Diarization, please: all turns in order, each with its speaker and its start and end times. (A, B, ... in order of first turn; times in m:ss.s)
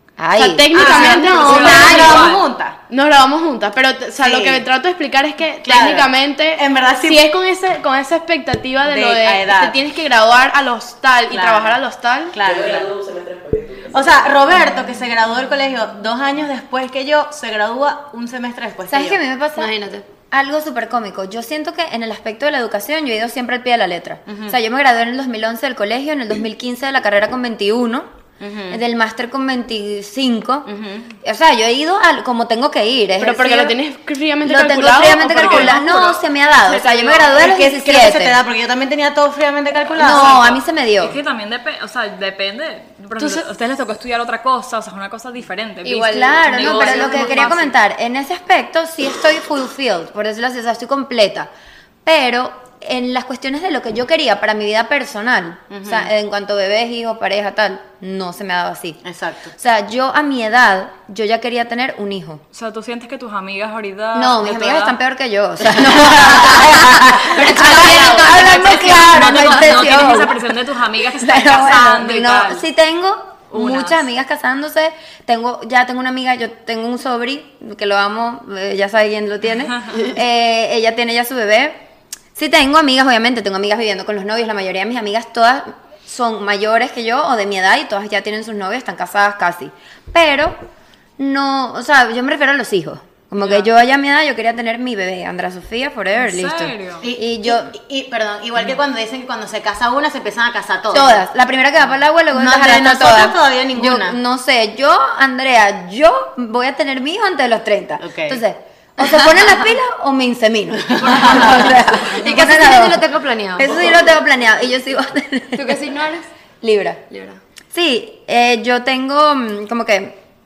0:00.2-0:02.0 A
0:00.4-0:02.3 B
0:00.7-0:02.8 C
0:00.8-0:02.4 D
0:02.9-0:12.4 B
0:04.2-0:04.6 C
0:05.6-0:07.3 C
0:08.8-0:09.8 C
0:11.3-0:11.8 C
0:12.3-0:12.9 C
0:12.4-0:14.5 E
0:13.9-0:19.2 C
0:18.9-0:19.7 A
0:19.6-0:20.0 F
0:20.3-0:28.1 A
0:24.3-0:24.6 C
0:28.4-0:28.8 C
0:28.7-0:30.7 A
0:30.7-0:31.1 C
0:31.2-0:33.8 A
0:33.2-0:35.8 B
0:34.4-0:38.4 A
0:35.1-0:37.4 D
0:37.3-0:40.6 C
0:40.0-0:41.2 A
0:40.1-0:40.4 D
0:41.0-0:47.7 D
0:43.2-0:43.4 B
0:45.8-0:47.7 F
0:46.1-0:51.5 A
0:52.0-0:59.0 A
0:55.7-0:56.1 C
0:59.0-0:59.5 C
0:59.5-1:02.4 A
1:02.5-1:05.0 D
1:04.1-1:10.6 A
1:05.9-1:10.0 C
1:07.3-1:12.6 D
1:11.1-1:21.8 A
1:13.5-1:14.0 D
1:22.4-1:30.6 A
1:31.2-1:37.7 A
1:33.4-1:33.7 D
1:36.2-1:37.0 D
1:37.0-1:41.2 C
1:40.9-1:53.0 A
1:42.3-1:44.2 C
1:48.0-1:48.4 C
1:50.9-1:51.7 C
1:51.2-1:53.9 F
1:51.3-1:51.8 D
1:53.5-1:55.8 A
1:55.5-1:56.3 F
1:56.6-1:57.0 A
1:57.1-1:57.4 F
1:57.7-2:00.2 A